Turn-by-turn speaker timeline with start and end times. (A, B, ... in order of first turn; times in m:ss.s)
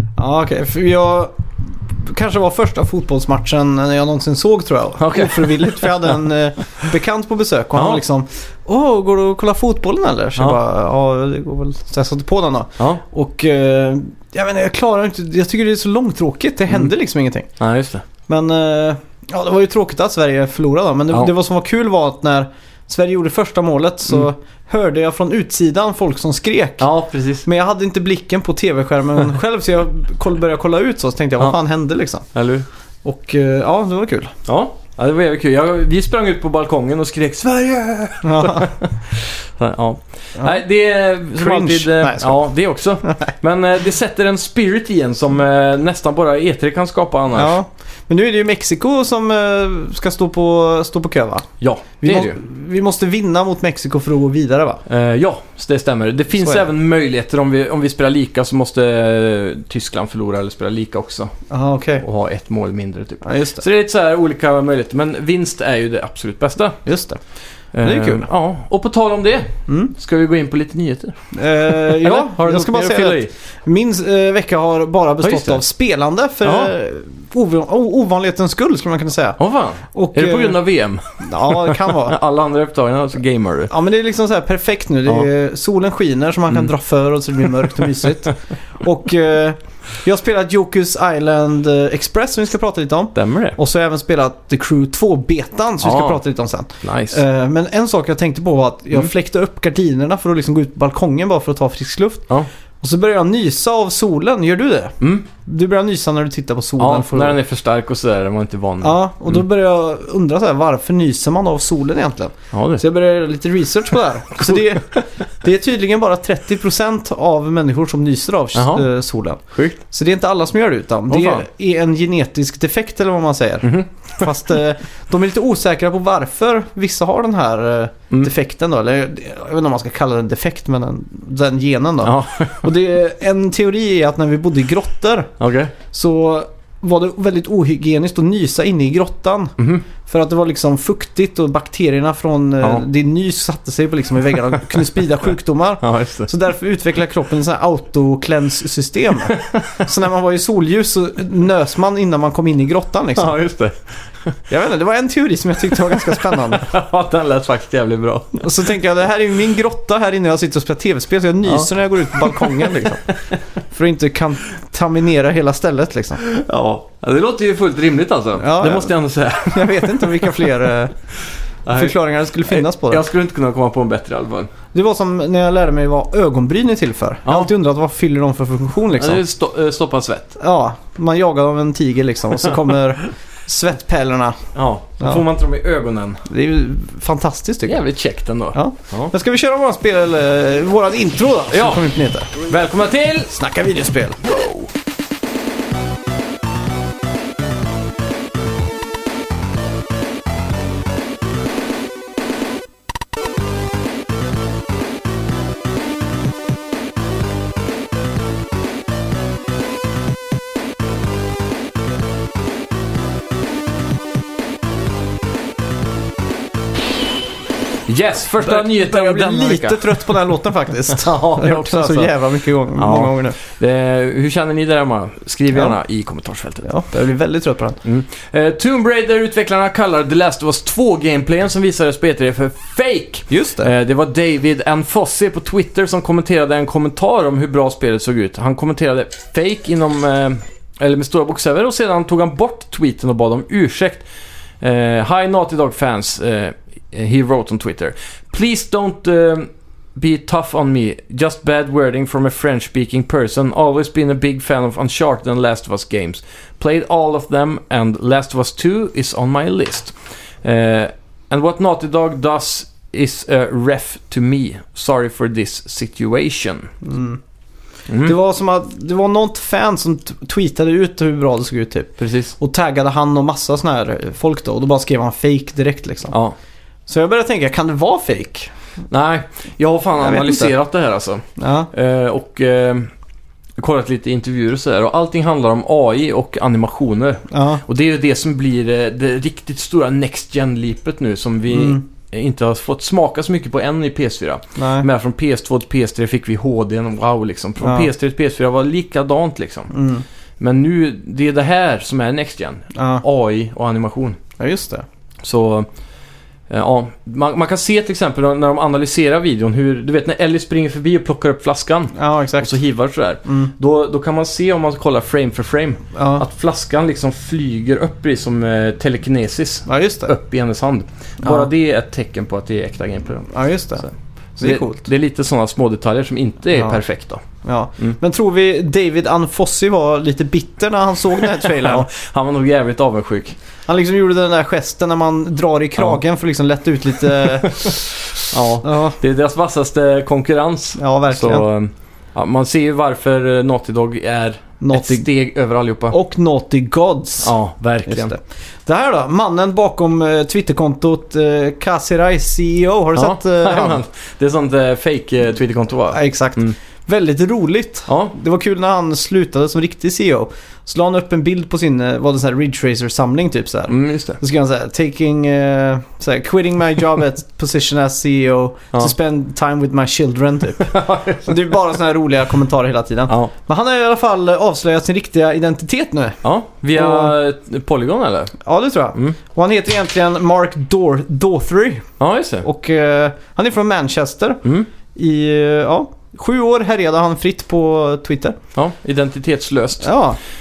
0:00.2-0:17.5 A
0:05.0-0:06.2 B
0:07.8-0:08.0 B
0:17.6-0:18.0 B
0:18.3-0:26.9 A
0:26.8-0:27.5 B
0:27.4-0:32.3 A
0:32.3-0:32.6 B
0:33.0-0:34.3 A
0:34.4-0:47.6 B
0:38.2-0:38.7 A
0:41.3-0:42.4 A
0:43.0-0:43.3 A
0:47.3-0:51.5 A
0:51.6-0:52.4 B
0:52.0-0:54.8 A
0:54.8-1:01.3 B
1:01.5-1:02.0 A
1:02.0-1:06.8 B
1:03.2-1:03.6 A
1:06.8-1:07.2 A
1:07.7-1:11.1 B
1:07.8-1:08.3 A
1:09.7-1:09.9 A
1:11.3-1:19.4 A
1:11.6-1:13.3 B
1:15.2-1:15.6 B
1:16.4-1:16.7 B
1:19.4-1:23.7 B
1:19.9-1:20.6 A
1:21.2-1:22.2 A
1:23.7-1:42.3 A
1:33.2-1:33.6 B
1:35.8-1:36.2 B
1:36.8-1:37.2 B
1:42.8-1:47.4 A
1:45.0-1:45.2 B
1:46.8-1:49.4 B
1:48.8-2:15.3 A
1:52.5-1:52.8 B
1:58.5-1:58.8 B
1:59.5-1:59.8 B
2:01.1-2:01.4 B
2:03.6-2:04.3 B
2:12.0-2:12.7 B
2:15.4-2:15.7 B
2:15.9-2:33.3 A
2:19.6-2:19.8 B
2:25.8-2:26.3 B
2:29.3-2:29.8 B
2:33.1-2:34.4 B
2:34.5-2:36.7 A
2:35.7-2:38.5 B
2:38.4-2:43.1 A
2:41.4-2:43.4 B
2:43.7-2:46.2 A
2:46.2-2:50.5 B
2:48.4-2:48.9 A
2:49.4-2:50.9 A
2:51.6-2:54.5 B
2:51.7-2:53.0 A
2:54.7-2:59.2 A
2:59.0-3:00.4 B
3:00.4-3:04.4 A
3:04.5-3:06.3 B
3:06.3-3:07.8 A
3:07.6-3:09.1 B
3:08.5-3:12.3 A
3:11.5-3:13.3 B
3:13.3-3:14.2 A
3:14.2-3:14.7 B
3:37.9-3:40.1 B
3:38.4-3:43.4 A
3:40.9-3:42.1 B
3:42.7-3:46.7 B
3:46.6-3:47.8 A
3:47.8-4:04.0 B
3:53.3-3:53.7 A
4:04.6-4:26.7 B
4:26.8-4:27.2 A
4:27.9-4:28.1 B
4:28.0-4:36.2 A
4:32.0-4:32.3 B
4:36.9-4:38.5 A
4:38.9-4:42.9 B
4:40.0-4:40.5 A
4:41.4-4:41.7 A
4:43.6-4:59.7 B
4:47.3-4:47.6 A
4:51.5-4:51.8 A
4:54.6-4:54.9 A
4:57.6-4:57.9 A
4:59.7-5:00.0 A
5:00.4-5:04.2 B
5:02.7-5:03.0 A
5:04.4-5:04.8 A
5:05.2-5:05.7 B
5:06.5-5:27.2 B
5:11.9-5:12.5 A
5:13.2-5:13.5 A
5:15.9-5:16.2 A
5:19.7-5:20.1 A
5:21.2-5:21.5 A
5:23.3-5:23.9 A
5:24.4-5:24.9 A
5:26.5-5:26.8 A
5:27.4-5:31.9 A
5:31.4-5:33.4 B
5:33.7-5:37.8 A
5:38.2-5:45.9 B
5:38.6-5:39.0 A
5:40.8-5:41.5 A
5:44.6-5:45.0 A
5:45.9-5:47.3 A
5:47.2-5:48.1 B
5:47.9-5:53.8 A
5:52.9-5:56.5 B
5:55.9-6:16.2 A
5:57.9-5:58.1 B
6:03.7-6:04.2 B
6:10.6-6:11.4 B
6:16.2-6:18.3 B
6:16.7-6:17.1 A
6:18.4-6:21.9 A
6:22.0-6:22.4 B
6:22.4-6:24.4 A
6:24.9-6:28.4 A
6:28.5-6:29.9 B
6:29.8-6:30.2 A